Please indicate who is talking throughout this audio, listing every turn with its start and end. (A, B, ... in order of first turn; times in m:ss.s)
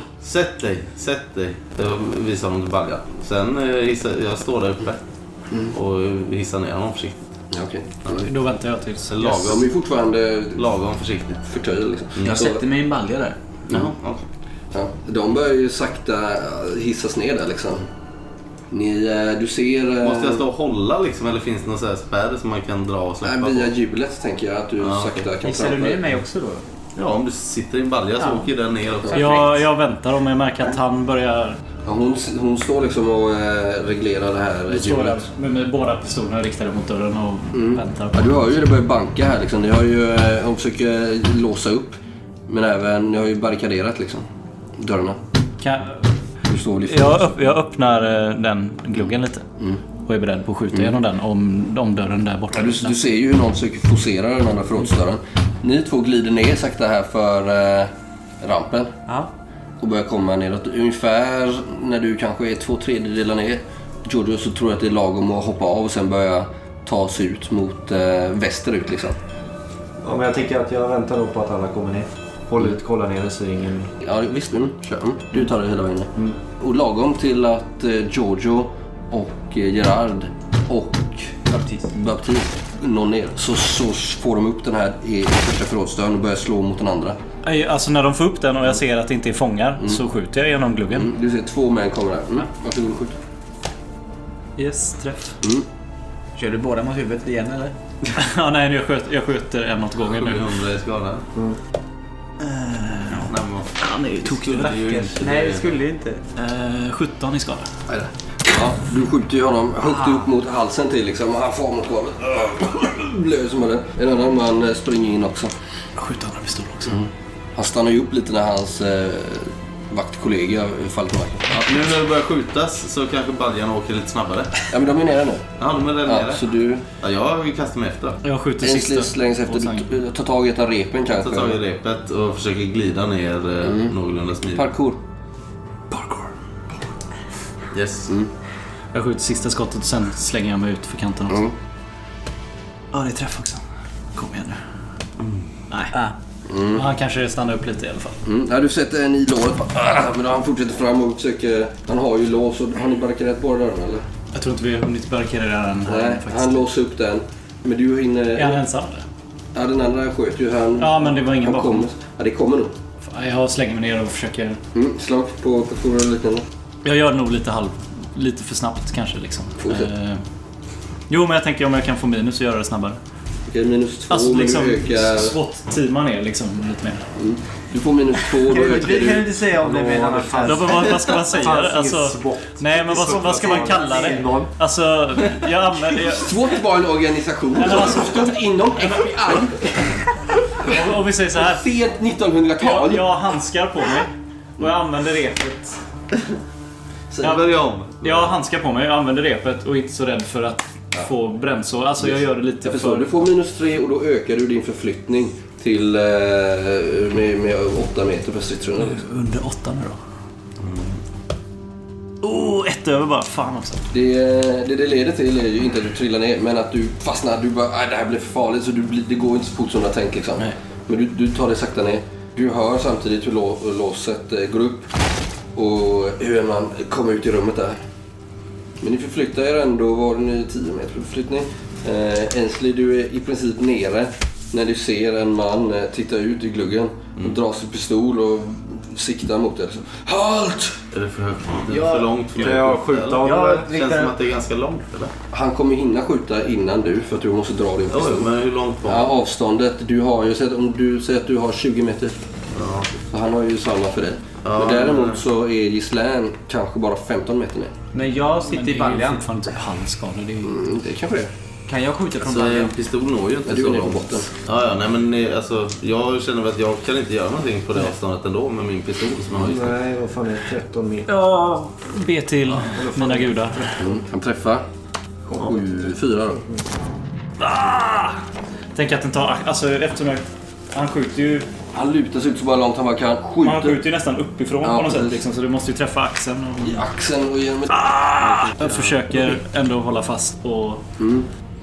0:00.2-0:05.0 A
0:05.7-0:07.2 A
0:07.5-0:08.3 B
0:08.2-0:09.6 C
0:09.1-0:09.7 A
0:09.4-0:10.7 B
0:10.6-0:11.5 A
0:11.5-0:12.6 B
0:12.2-0:13.4 D
0:13.7-0:14.2 A
0:14.7-0:17.9 B
0:18.7-0:20.4 B
0:20.0-0:23.7 A
0:23.2-0:26.0 B
0:24.8-0:25.3 A
0:25.4-0:26.6 D
0:27.0-0:29.4 A
0:28.2-0:28.5 D
0:29.1-0:29.6 D
0:29.1-0:31.6 C
0:31.8-0:35.2 B
0:34.7-0:38.6 C
0:37.5-0:44.3 B
0:44.8-0:45.2 B
0:45.6-0:46.1 C
0:46.5-0:47.4 B
0:46.8-0:49.4 C
0:50.1-0:53.0 C
0:52.5-0:57.9 B
0:58.4-0:58.9 B
0:59.8-1:09.2 B
1:10.0-1:13.9 E
1:14.0-1:21.3 B
1:21.5-1:21.9 D
1:21.9-1:27.2 B
1:27.4-1:31.1 C
1:30.9-1:33.2 B
1:34.6-1:35.4 C
1:36.4-1:37.8 D
1:38.1-1:40.5 C
1:40.1-1:41.3 A
1:42.4-1:43.3 C
1:43.2-1:45.7 A
1:43.8-1:46.2 D
1:46.4-1:47.7 C
1:47.9-1:55.5 B
1:56.0-1:57.0 C
1:56.9-2:01.7 B
2:01.5-2:04.6 A
2:04.7-2:05.5 B
2:05.6-2:08.2 A
2:06.1-2:06.8 B
2:08.2-2:09.9 C
2:08.6-2:11.6 B
2:11.1-2:14.7 A
2:13.6-2:13.9 B
2:14.5-2:15.0 B
2:15.9-2:16.3 C
2:17.7-2:18.1 A
2:18.9-2:21.4 C
2:21.3-2:21.6 B
2:22.9-2:23.6 C
2:24.2-2:24.6 C
2:26.5-2:26.9 B
2:26.7-2:28.2 C
2:28.2-2:34.1 B
2:34.3-2:36.6 C
2:35.9-2:38.6 B
2:38.4-2:39.0 C
2:39.6-2:42.8 B
2:40.8-2:41.9 C
2:43.0-2:44.6 C
2:44.7-2:46.4 B
2:46.8-2:50.2 C
2:49.6-2:49.9 B
2:51.1-2:53.0 C
2:53.5-2:55.4 B
2:54.1-2:57.1 C
2:57.2-2:59.3 B
2:58.4-3:00.8 D
2:59.6-3:04.5 E
3:00.4-3:06.4 C
3:03.7-3:04.2 D
3:06.0-3:10.0 B
3:07.6-3:09.4 C
3:10.6-3:13.1 B
3:10.6-3:11.7 C
3:12.6-3:15.8 C
3:17.1-3:17.4 B
3:17.2-3:18.3 A
3:17.2-3:23.2 C
3:22.0-3:29.0 B
3:28.8-3:30.0 C
3:30.6-3:31.0 A
3:32.2-3:33.9 C
3:33.9-3:44.9 B
3:45.6-3:47.8 B
3:48.8-4:00.8 B
4:00.9-4:05.1 A
4:01.7-4:04.2 D
4:02.4-4:03.7 E
4:05.3-4:12.2 B
4:07.9-4:09.1 A
4:12.5-4:12.9 A
4:13.1-4:17.7 B
4:14.4-4:15.2 A
4:17.9-4:19.2 D
4:18.5-4:20.6 C
4:20.4-4:21.3 B
4:21.7-4:22.8 D
4:22.2-4:29.8 A
4:23.5-4:24.3 B
4:29.4-4:31.1 E
4:31.1-4:33.8 C
4:32.7-4:33.9 E
4:33.8-4:34.6 B
4:35.3-4:35.7 E
4:35.4-4:36.4 B
4:37.4-4:38.2 C
4:38.8-4:41.5 C
4:41.7-4:43.8 B
4:43.4-4:46.9 C
4:44.6-4:45.2 B
4:46.6-4:47.8 B
4:47.7-4:50.8 C
4:48.6-4:49.3 B
4:51.0-4:51.3 B